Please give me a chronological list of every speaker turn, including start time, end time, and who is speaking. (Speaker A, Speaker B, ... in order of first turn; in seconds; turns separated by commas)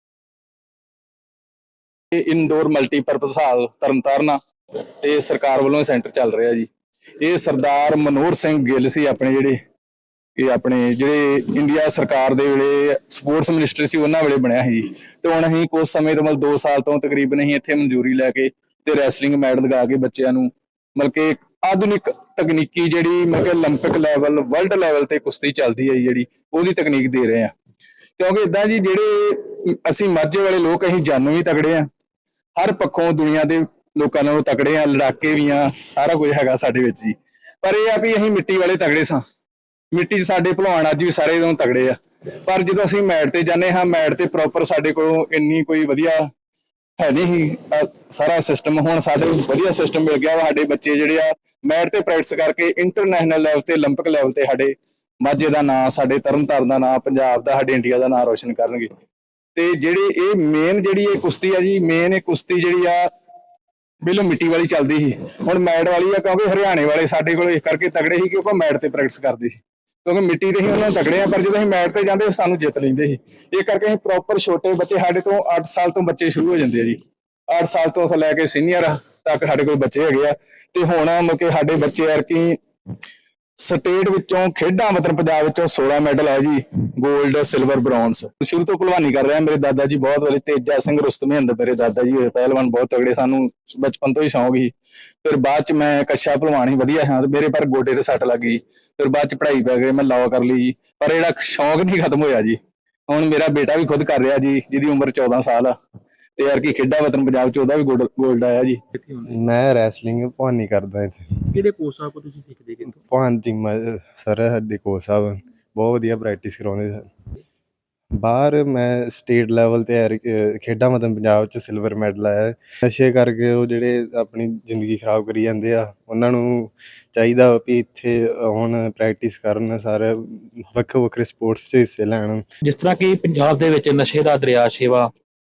Speaker A: 2.1-4.4, Speaker A: 5.0-6.7, Speaker A: 7.2-9.6, Speaker A: 10.4-27.5, Speaker A: 28.2-31.9, Speaker A: 32.5-39.2, Speaker A: 39.9-46.3, Speaker A: 47.0-58.9, Speaker A: 59.5-63.1, Speaker A: 64.0-77.0, Speaker A: 77.5-82.6, Speaker A: 83.6-94.7, Speaker A: 95.2-105.7, Speaker A: 106.4-108.8, Speaker B: 109.0-109.3, Speaker C: 109.2-111.2, Speaker B: 111.5-112.9, Speaker C: 113.0-117.1, Speaker C: 118.2-132.4, Speaker B: 132.6-135.1